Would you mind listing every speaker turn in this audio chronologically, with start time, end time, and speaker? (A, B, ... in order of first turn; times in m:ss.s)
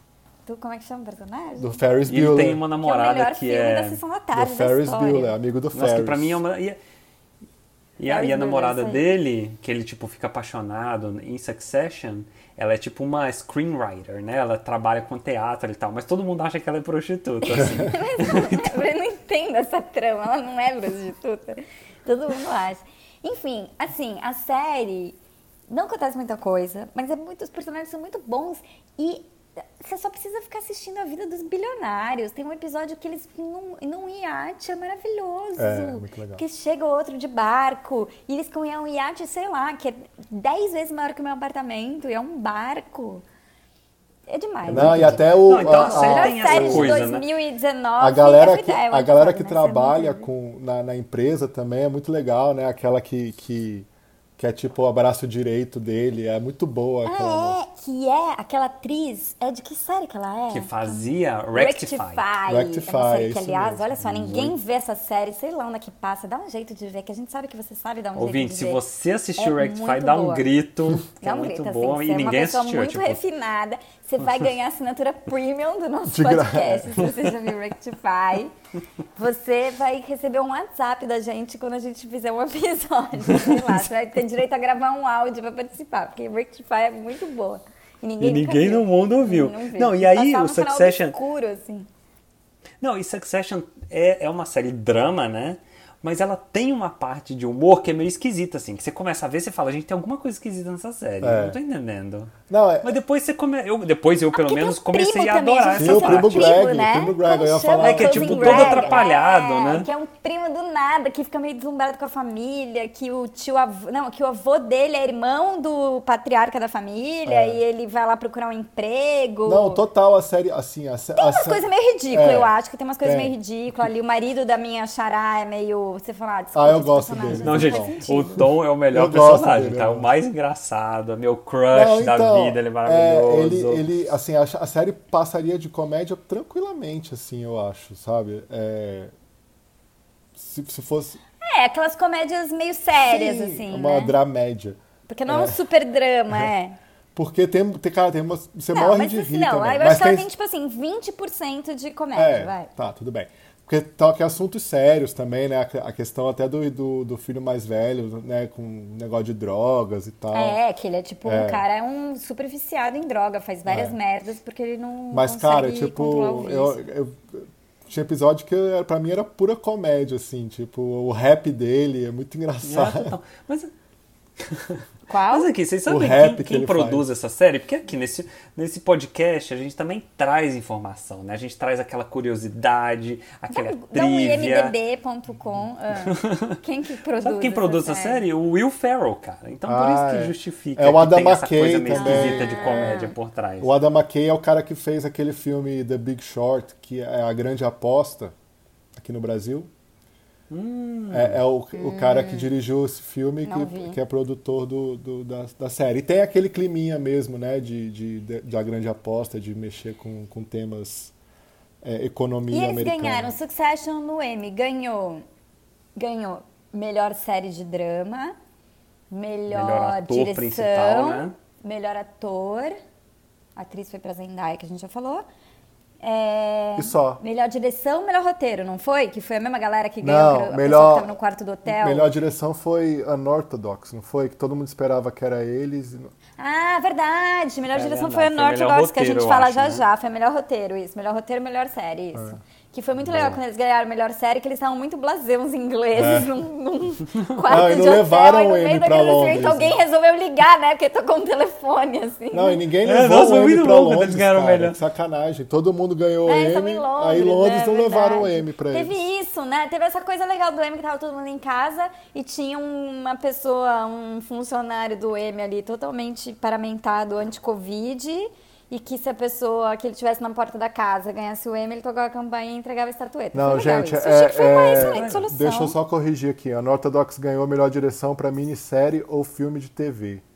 0:00.4-0:01.8 A
0:01.6-0:02.6 B
0:02.1-0:04.0 C
0:02.8-0:05.3 A
0:04.3-0:06.4 B
0:05.7-0:06.8 C
0:08.0-0:18.8 C
0:08.1-0:09.0 A
0:17.4-0:25.2 A
0:25.7-0:29.2 A
0:29.8-0:43.2 A
0:35.6-0:36.4 B
0:44.3-0:50.3 A
0:44.7-0:47.0 B
0:44.7-0:47.2 C
0:48.0-0:53.9 B
0:54.4-0:57.6 B
0:57.0-1:08.8 A
1:00.5-1:02.2 C
1:02.5-1:03.9 B
1:04.0-1:04.5 C
1:08.2-1:13.2 C
1:09.4-1:10.5 A
1:11.2-1:18.5 A
1:16.1-1:17.1 B
1:19.2-1:31.9 A
1:23.3-1:23.6 C
1:28.2-1:31.2 C
1:32.8-1:46.6 C
1:41.2-1:41.6 B
1:42.5-1:42.9 B
1:44.3-1:59.8 A
1:45.7-1:49.0 B
1:47.8-1:49.9 C
1:57.2-1:57.6 B
1:59.4-2:03.3 B
2:01.2-2:08.4 A
2:06.5-2:08.0 B
2:07.4-2:13.8 C
2:08.9-2:10.1 B
2:11.7-2:19.1 B
2:20.4-2:21.2 B
2:21.4-2:24.2 A
2:23.0-2:25.6 B
2:25.1-2:26.8 A
2:27.1-2:30.3 B
2:28.7-2:32.7 A
2:32.1-2:40.6 B
2:40.3-2:46.8 A
2:41.2-2:41.6 B
2:43.6-2:44.0 B
2:45.1-2:53.1 B
2:52.6-2:53.7 C
2:54.4-3:04.7 C
2:55.1-2:55.5 A
2:55.8-2:57.1 B
3:03.5-3:08.2 A
3:06.0-3:06.6 C
3:07.2-3:13.7 C
3:09.6-3:13.0 B
3:11.9-3:13.1 A
3:13.6-3:18.3 B
3:19.0-3:19.7 B
3:20.5-3:21.4 C
3:21.1-3:31.1 B
3:21.8-3:22.5 A
3:23.4-3:24.0 A
3:31.8-3:33.3 B
3:32.5-3:35.2 A
3:36.0-3:38.3 A
3:39.1-3:42.7 A
3:39.5-3:41.3 C
3:43.6-3:45.2 A
3:46.0-3:52.1 A
3:46.8-3:47.2 B
3:50.0-3:51.1 B
3:51.6-3:56.1 B
3:56.4-4:12.6 A
3:57.7-3:59.8 C
4:05.9-4:06.3 B
4:07.5-4:09.8 B
4:12.3-4:19.0 B
4:12.8-4:14.8 C
4:16.2-4:35.8 A
4:33.3-4:40.2 B
4:34.7-4:35.2 C